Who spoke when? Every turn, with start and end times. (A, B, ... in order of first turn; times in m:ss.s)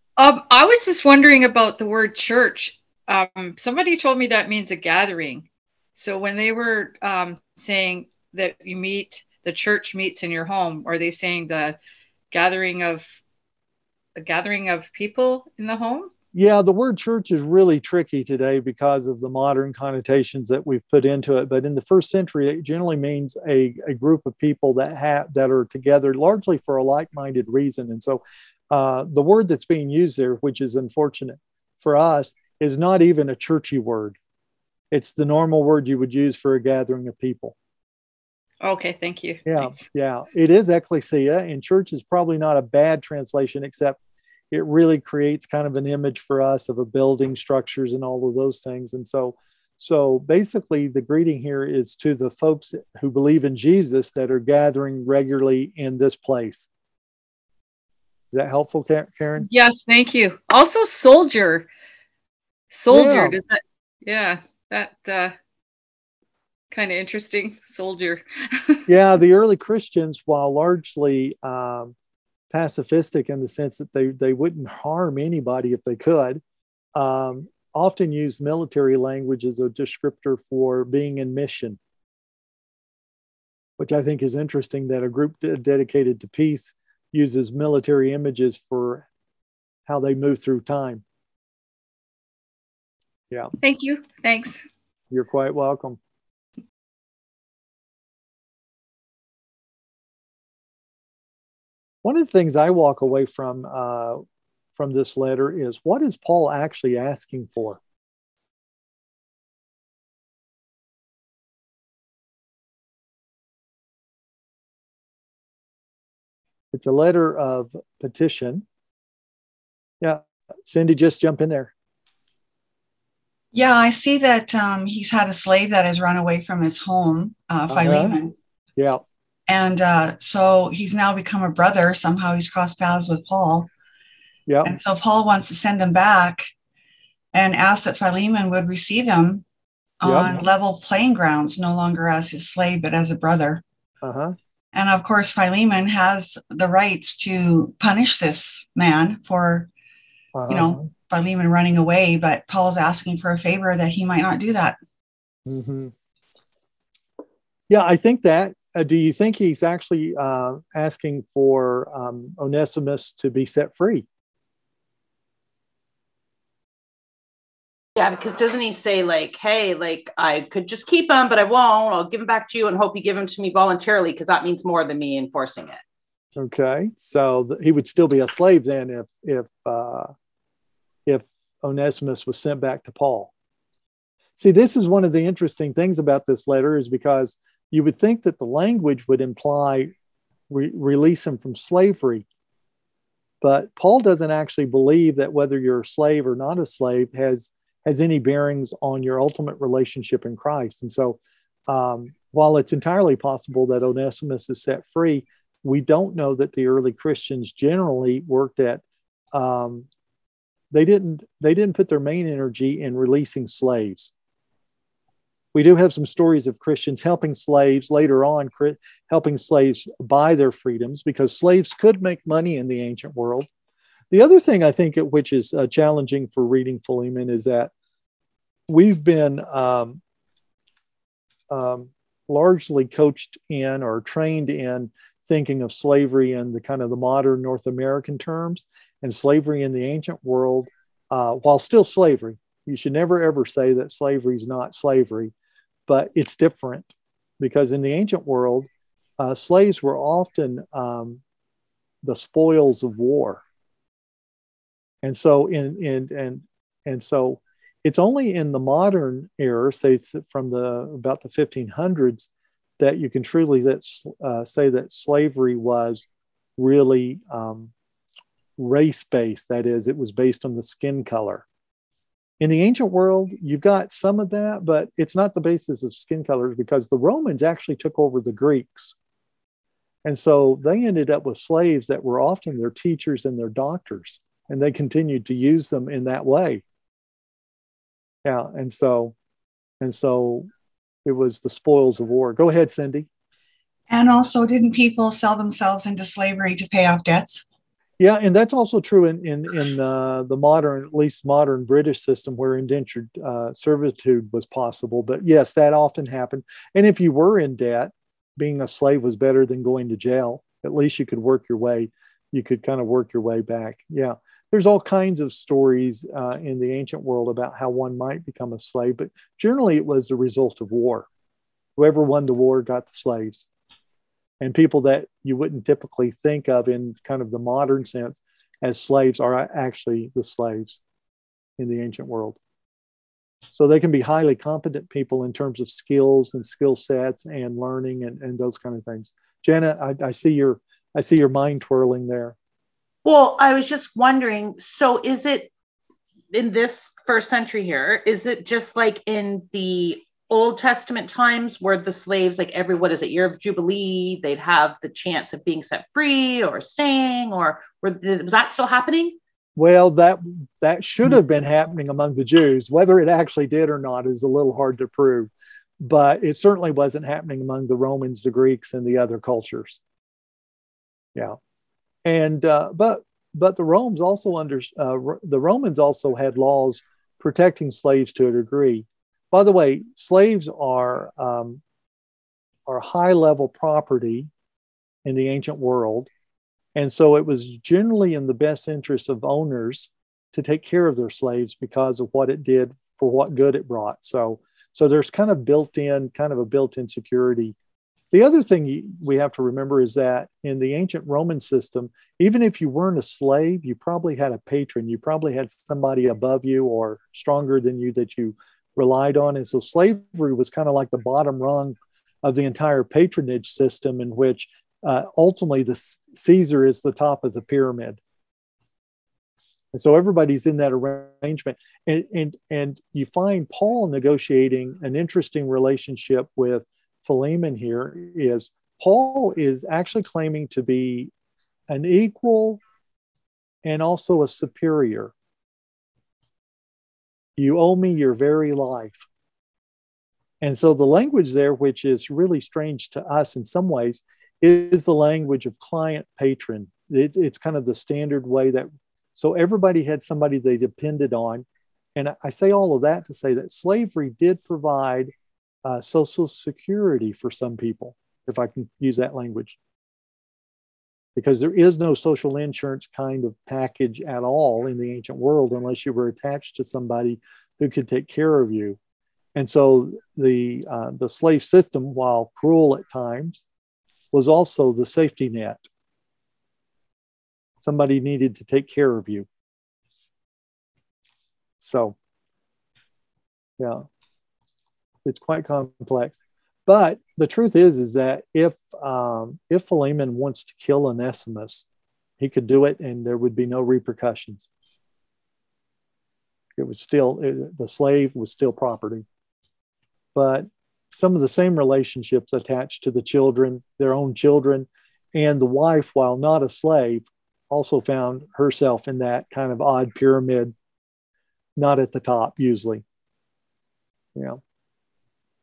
0:00.2-0:11.8 A
0:12.3-0:13.0 A
0:14.2-0:16.1 A
0:16.3-0:34.2 B
0:34.9-0:37.5 B
0:38.6-0:39.8 A
0:39.4-0:44.0 B
0:44.5-0:56.7 B
0:58.3-0:59.5 B
0:59.4-1:01.7 A
1:02.7-1:05.4 A
1:02.9-1:03.4 B
1:06.7-1:08.8 A
1:08.9-1:11.9 B
1:12.5-1:16.4 B
1:16.9-1:21.8 B
1:23.8-1:29.0 B
1:29.9-1:31.0 B
1:33.6-1:34.6 A
1:35.1-1:36.0 B
1:42.0-1:44.2 B
1:44.7-1:47.8 B
1:56.7-1:58.6 B
2:00.0-2:01.7 B
2:03.5-2:08.3 C
2:07.7-2:08.1 B
2:09.5-2:13.7 C
2:14.5-2:14.7 B
2:14.6-2:16.5 C
2:17.3-2:19.4 C
2:20.0-2:23.6 C
2:20.0-2:20.4 B
2:24.0-2:24.3 B
2:24.7-2:29.7 C
2:30.3-2:30.9 B
2:30.5-2:34.8 C
2:35.4-2:35.9 B
2:37.7-2:44.0 B
2:48.0-2:55.8 D
2:56.4-3:00.1 B
3:01.0-3:03.3 B
3:04.4-3:09.9 B
3:10.5-3:12.2 B
3:13.4-3:28.8 B
3:29.3-3:29.9 B
3:30.7-3:34.1 B
3:35.5-3:43.5 B
3:44.1-3:47.7 B
3:48.7-3:50.0 B
3:51.5-4:05.3 B
4:05.9-4:08.7 B
4:09.2-4:11.2 B
4:12.0-4:13.4 B
4:15.0-4:26.0 B
4:26.6-4:27.7 B
4:28.6-4:31.4 B
4:32.4-4:39.0 B
4:40.0-4:46.6 B
4:48.2-4:49.1 B
4:49.8-4:50.5 B
4:51.0-4:53.1 B
4:53.9-4:57.4 C
4:58.0-5:21.1 B
5:21.8-5:23.4 B
5:24.4-5:30.8 B
5:31.6-5:32.4 B
5:33.5-5:42.3 B
5:43.0-5:45.5 D
5:46.3-5:59.2 D
5:59.6-6:09.8 B
6:12.0-6:21.6 B
6:22.7-6:24.3 B
6:25.0-6:26.1 B
6:26.8-6:37.5 B
6:38.1-6:58.0 B
6:59.7-7:11.1 B
7:11.7-7:12.6 B
7:13.6-7:15.1 B
7:17.4-7:19.0 B
7:20.4-7:35.1 B
7:35.6-7:39.6 B
7:41.2-7:48.8 B
7:49.4-7:53.4 B
7:54.1-7:55.7 B
7:57.6-7:59.3 B
8:01.6-8:01.9 B
8:03.6-8:03.8 B
8:05.0-8:11.6 B
8:12.2-8:14.5 B
8:16.6-8:19.0 B
8:20.1-8:30.5 B
8:31.6-8:32.8 B